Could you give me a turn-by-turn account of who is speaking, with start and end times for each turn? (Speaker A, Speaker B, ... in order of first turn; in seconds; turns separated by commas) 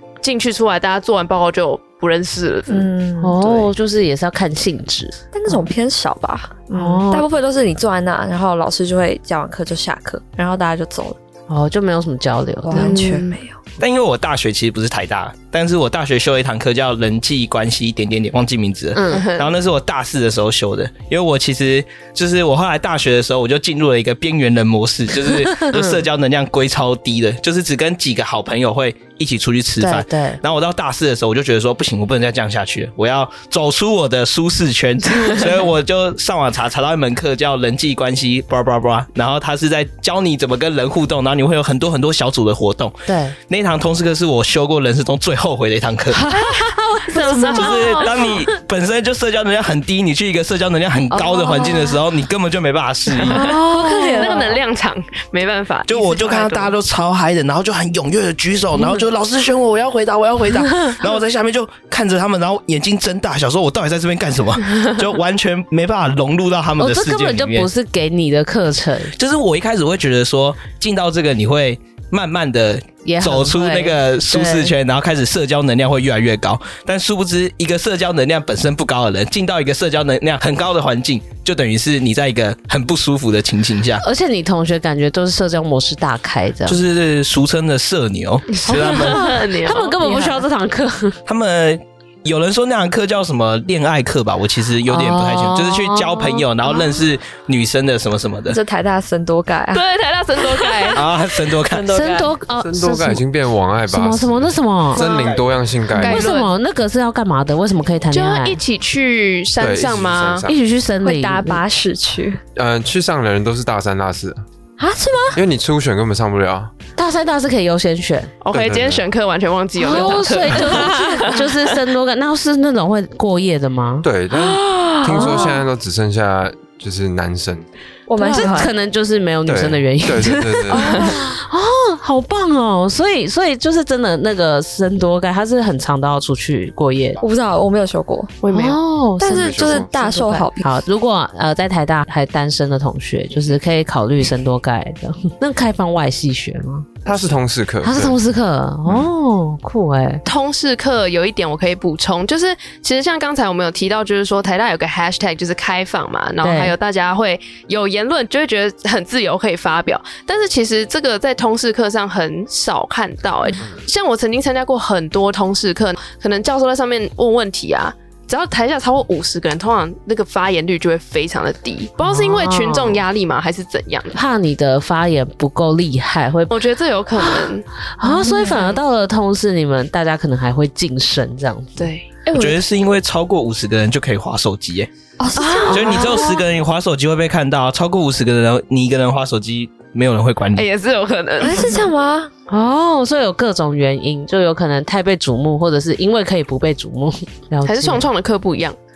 Speaker A: 0.2-2.9, Speaker B: 2.7-3.4, Speaker C: 3.2-5.7, Speaker A: 3.4-3.7, Speaker B: 5.3-11.2, Speaker C: 6.7-7.2, Speaker C: 11.5-13.0, Speaker B: 12.7-13.6, Speaker A: 12.7-13.4, Speaker D: 13.8-46.3, Speaker C: 18.9-19.2, Speaker A: 19.1-19.5, Speaker C: 25.6-26.0, Speaker C: 29.8-30.4, Speaker C: 43.1-43.4, Speaker C: 46.2-48.3, Speaker A: 47.1-48.4, Speaker D: 47.4-53.6, Speaker B: 51.4-52.0, Speaker C: 53.2-54.6, Speaker A: 53.2-56.7, Speaker B: 53.5-54.5, Speaker D: 55.9-67.7, Speaker C: 66.8-69.1, Speaker D: 69.2-84.0, Speaker C: 73.0-74.7, Speaker C: 84.0-86.8, Speaker D: 86.7-89.2, Speaker A: 88.5-89.9, Speaker C: 88.7-91.2, Speaker B: 89.7-90.4, Speaker D: 91.3-98.6, Speaker C: 94.9-96.5, Speaker B: 98.5-99.8, Speaker A: 99.7-101.0, Speaker B: 100.4-101.0, Speaker D: 100.9-102.0, Speaker B: 101.6-102.3, Speaker C: 101.9-103.2, Speaker E: 102.6-106.2, Speaker C: 103.9-105.1, Speaker D: 105.1-105.4, Speaker A: 105.9-106.5, Speaker C: 106.1-108.6, Speaker A: 108.1-110.5, Speaker E: 109.6-110.6, Speaker C: 110.5-111.6, Speaker B: 111.0-112.4, Speaker E: 112.6-114.4, Speaker B: 114.8-115.4, Speaker E: 115.3-116.7, Speaker C: 117.0-118.3, Speaker A: 118.4-121.4, Speaker E: 118.5-119.0, Speaker C: 119.8-125.6, Speaker B: 119.9-121.4, Speaker E: 124.0-127.7, Speaker B: 128.1-128.7, Speaker A: 128.2-128.6, Speaker C: 128.2-137.2, Speaker E: 129.5-131.0, Speaker B: 130.7-131.2, Speaker B: 137.2-138.4, Speaker A: 138.4-138.8, Speaker C: 138.5-147.1, Speaker B: 139.2-140.8, Speaker E: 139.3-139.9, Speaker E: 147.1-148.2, Speaker C: 147.8-150.2, Speaker E: 148.9-149.1, Speaker A: 150.3-174.2, Speaker C: 156.4-156.8, Speaker E: 163.6-163.8, Speaker C: 172.0-173.0, Speaker C: 174.1-176.6, Speaker A: 176.5-177.7, Speaker C: 177.2-181.9, Speaker B: 178.0-178.8, Speaker A: 181.8-182.3, Speaker D: 182.3-184.9, Speaker B: 185.2-186.4, Speaker C: 185.4-186.3, Speaker D: 185.7-190.7, Speaker A: 190.6-191.9, Speaker B: 191.4-192.3, Speaker C: 192.5-198.1, Speaker A: 197.7-198.8